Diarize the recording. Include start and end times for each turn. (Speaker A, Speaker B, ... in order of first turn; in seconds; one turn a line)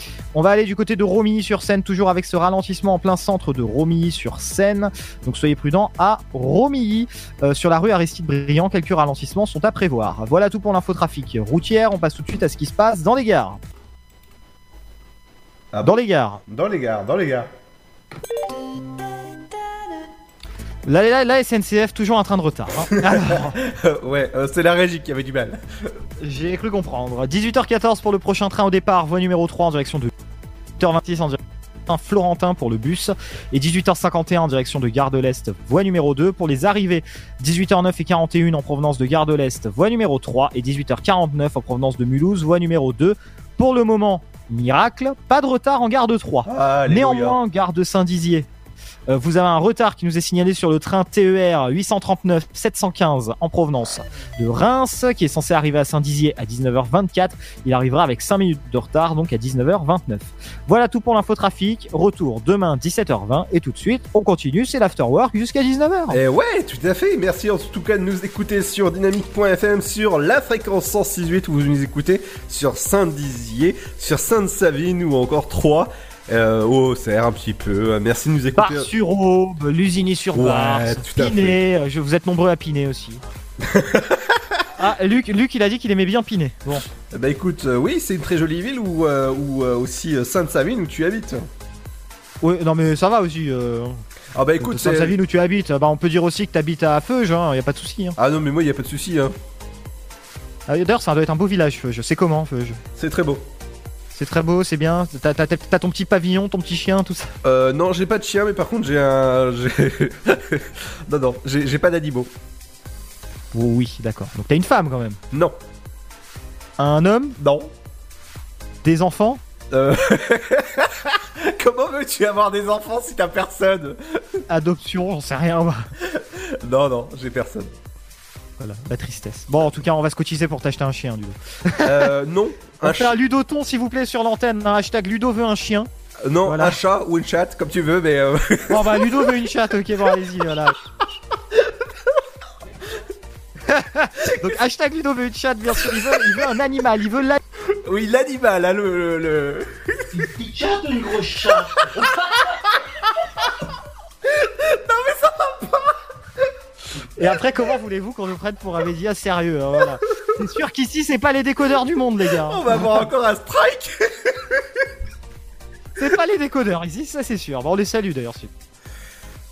Speaker A: 0.3-13.6
Speaker A: 15.8-16.4
Speaker B: 16.5-17.5
Speaker A: 20.9-23.6
Speaker B: 23.1-25.6
Speaker A: 26.2-30.1
Speaker A: 30.8-48.5
Speaker B: 46.5-47.4
Speaker A: 49.1-66.2
Speaker B: 66.1-78.9
Speaker A: 78.6-83.2
Speaker B: 80.3-81.5
Speaker B: 83.6-84.4
Speaker A: 84.8-86.8
Speaker B: 87.1-91.5
Speaker A: 92.4-94.0
Speaker B: 94.3-95.1
Speaker A: 94.6-98.2
Speaker B: 98.2-99.3
Speaker A: 100.7-102.8
Speaker B: 103.0-103.4
Speaker A: 104.1-107.3
Speaker B: 107.4-112.3
Speaker A: 113.5-115.2
Speaker A: 116.8-117.4
Speaker B: 117.4-117.7
Speaker A: 118.8-119.4
Speaker B: 119.7-124.0
Speaker A: 124.5-125.9
Speaker B: 126.1-127.7
Speaker A: 128.6-131.9
Speaker B: 131.8-133.1
Speaker A: 132.8-135.9
Speaker B: 136.2-139.2
Speaker A: 136.4-136.8
Speaker A: 138.7-140.8
Speaker A: 143.7-147.4
Speaker B: 147.8-149.7
Speaker C: 150.1-152.2
Speaker B: 154.3-155.9
Speaker A: 157.2-162.6
Speaker B: 162.4-164.4
Speaker A: 166.0-168.5